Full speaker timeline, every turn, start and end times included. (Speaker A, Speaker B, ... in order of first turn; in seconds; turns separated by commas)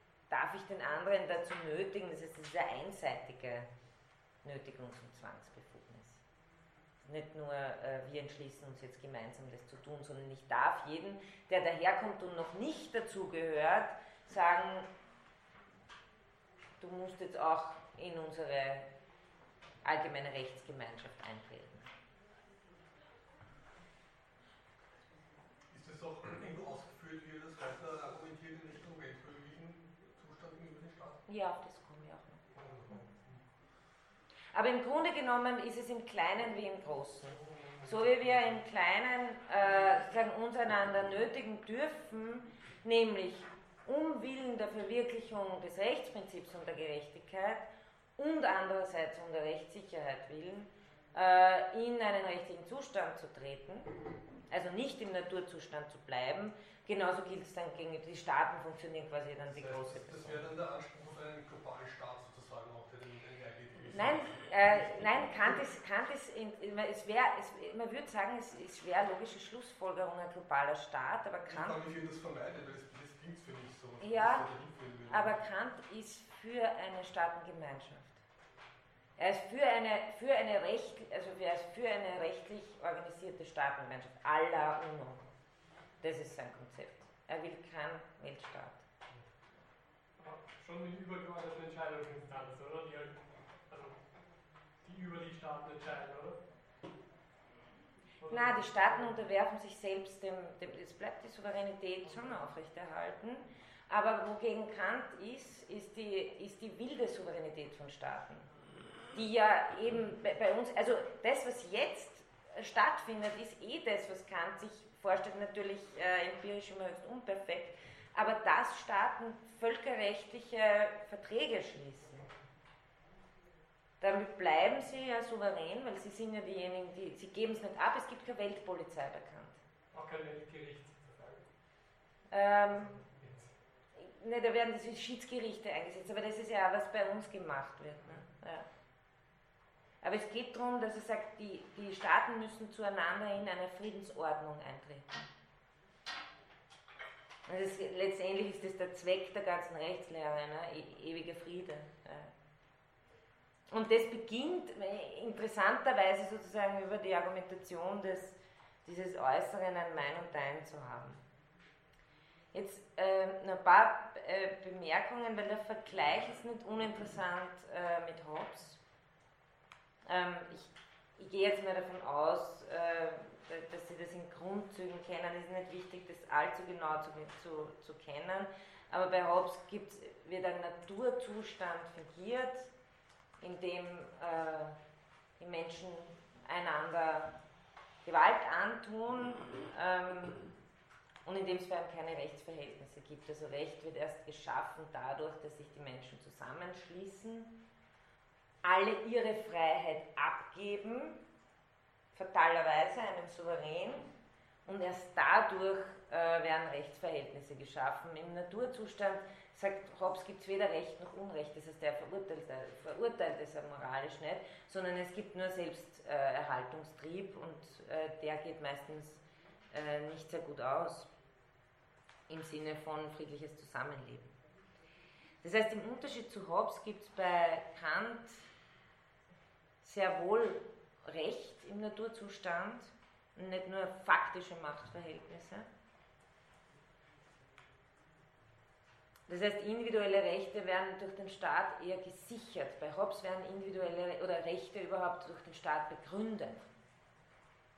Speaker A: 0.3-3.7, Speaker A: 4.4-6.2, Speaker A: 7.0-14.9, Speaker A: 16.8-18.9, Speaker A: 19.8-21.9, Speaker B: 25.7-31.2, Speaker A: 31.3-33.0, Speaker B: 32.5-33.4, Speaker A: 34.5-53.9, Speaker B: 37.4-38.3, Speaker A: 54.5-60.5, Speaker B: 59.5-65.5, Speaker A: 63.9-71.8, Speaker B: 71.5-75.4, Speaker A: 74.0-74.5, Speaker A: 75.1-78.2, Speaker A: 79.2-85.2, Speaker A: 86.0-88.8, Speaker C: 90.2-94.0, Speaker C: 94.8-96.4, Speaker C: 98.2-99.2, Speaker A: 98.3-108.5, Speaker A: 109.1-122.3, Speaker A: 124.0-129.6, Speaker C: 129.9-131.4, Speaker A: 132.3-132.9, Speaker C: 132.9-133.5, Speaker A: 133.9-138.7, Speaker A: 140.0-145.3, Speaker A: 147.5-152.3, Speaker A: 153.7-161.2, Speaker A: 162.5-168.8, Speaker A: 170.1-182.7, Speaker A: 183.4-184.8, Speaker A: 185.4-187.3, Speaker A: 188.0-190.5, Speaker A: 191.2-197.6, Speaker A: 198.6-201.2, Speaker A: 202.1-204.1, Speaker A: 204.7-221.1, Speaker A: 222.3-224.3, Speaker A: 225.4-228.4, Speaker A: 229.8-235.7, Speaker A: 239.3-246.7